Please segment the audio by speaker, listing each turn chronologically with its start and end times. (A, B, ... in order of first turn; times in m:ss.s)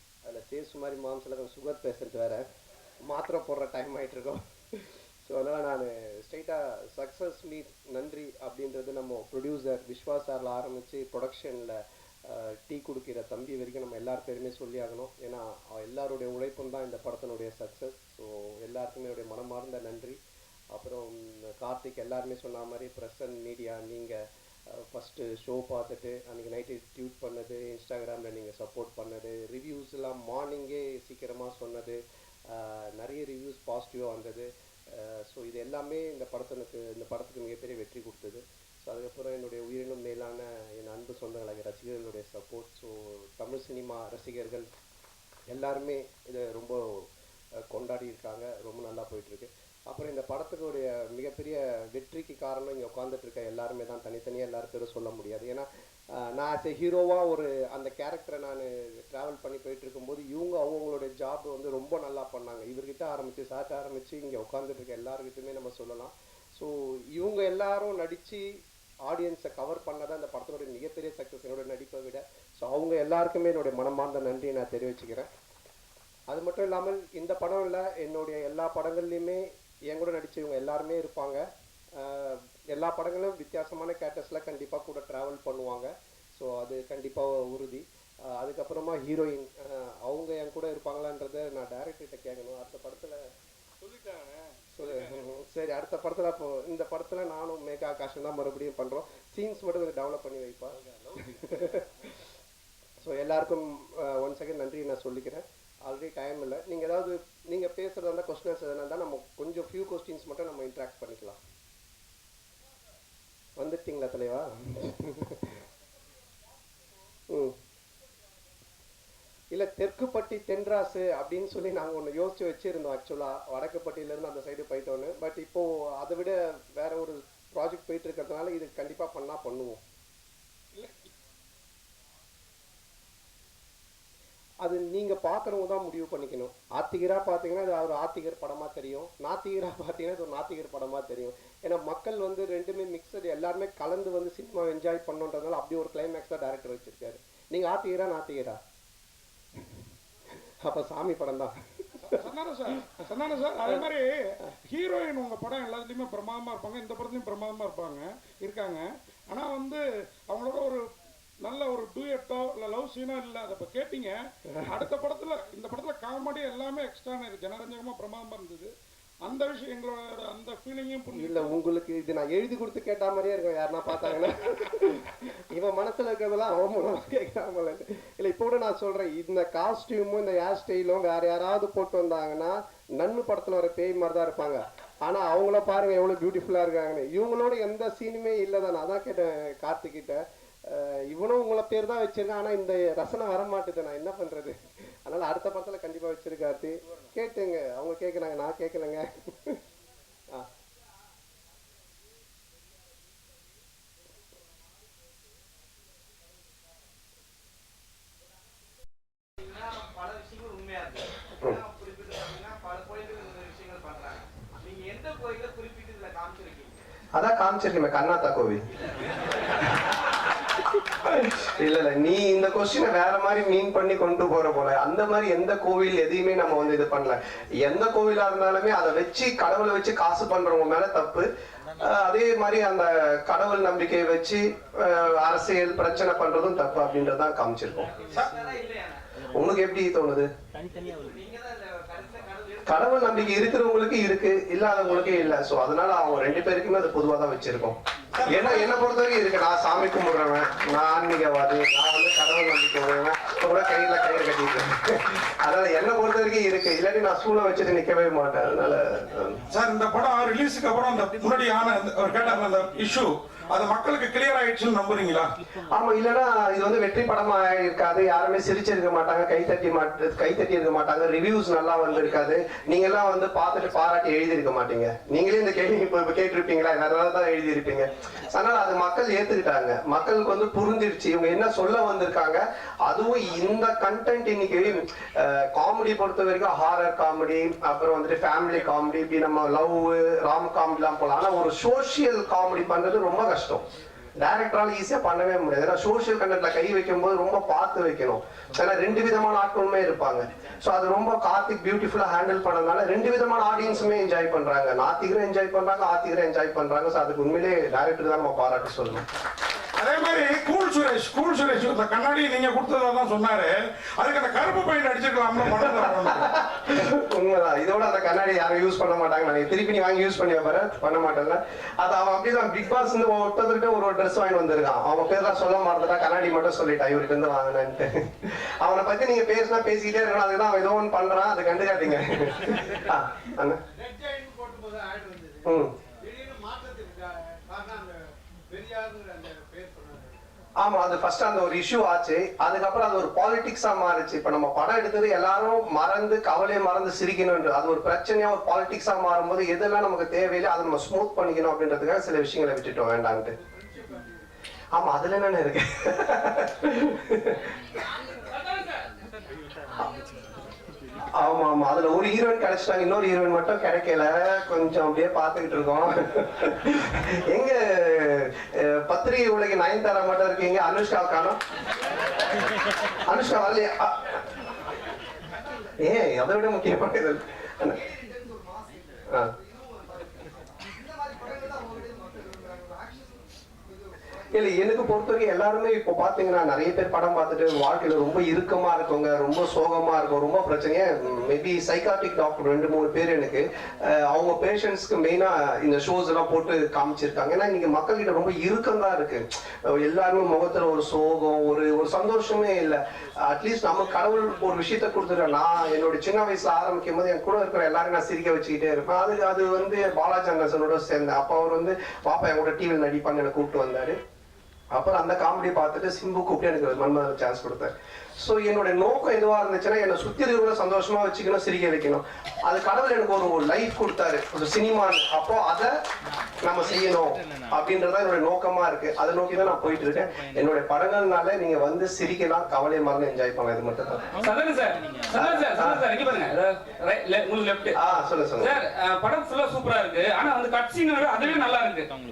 0:00.3-0:02.4 A
0:03.0-0:20.2 A
0:20.7-0:24.2 A
0:24.7-0:44.7 A
0:45.5-0:47.0 A
0:47.7-1:08.5 A
1:09.1-1:15.3 A
1:16.3-1:21.4 A
1:22.0-1:33.2 A
1:33.8-1:34.4 B
1:34.8-1:42.1 A
1:43.0-1:51.4 A
1:53.6-1:55.6 A
1:57.3-1:57.6 A
1:59.5-2:09.8 A
2:14.6-2:28.6 A
2:30.4-2:32.1 A
2:32.1-2:40.8 C
2:41.4-2:44.2 C
2:44.7-2:48.7 C
2:49.2-2:51.5 C
2:51.1-3:19.6 A
3:31.8-3:36.6 B
3:37.2-3:38.6 A
3:41.0-3:57.9 A
3:58.1-3:58.5 C
3:59.3-4:00.3 A
4:02.7-4:19.4 A
4:08.2-4:08.7 C
4:19.5-4:25.3 C
4:25.7-4:53.6 A
4:54.2-5:09.0 A
5:09.8-5:16.3 C
5:16.1-5:33.6 A
5:33.8-5:35.4 B
5:35.4-5:35.7 A
5:36.0-5:40.2 B
5:40.6-5:53.4 A
5:54.8-5:57.5 A
6:01.1-6:11.4 A
6:13.1-6:14.1 A
6:15.8-6:17.8 A
6:18.1-6:18.7 B
6:20.8-6:23.1 B
6:24.3-6:54.0 A
6:54.7-7:05.7 A
7:06.4-7:14.0 A
7:14.2-7:17.8 D
7:15.2-7:15.8 A
7:17.8-7:18.6 A
7:18.4-7:21.9 D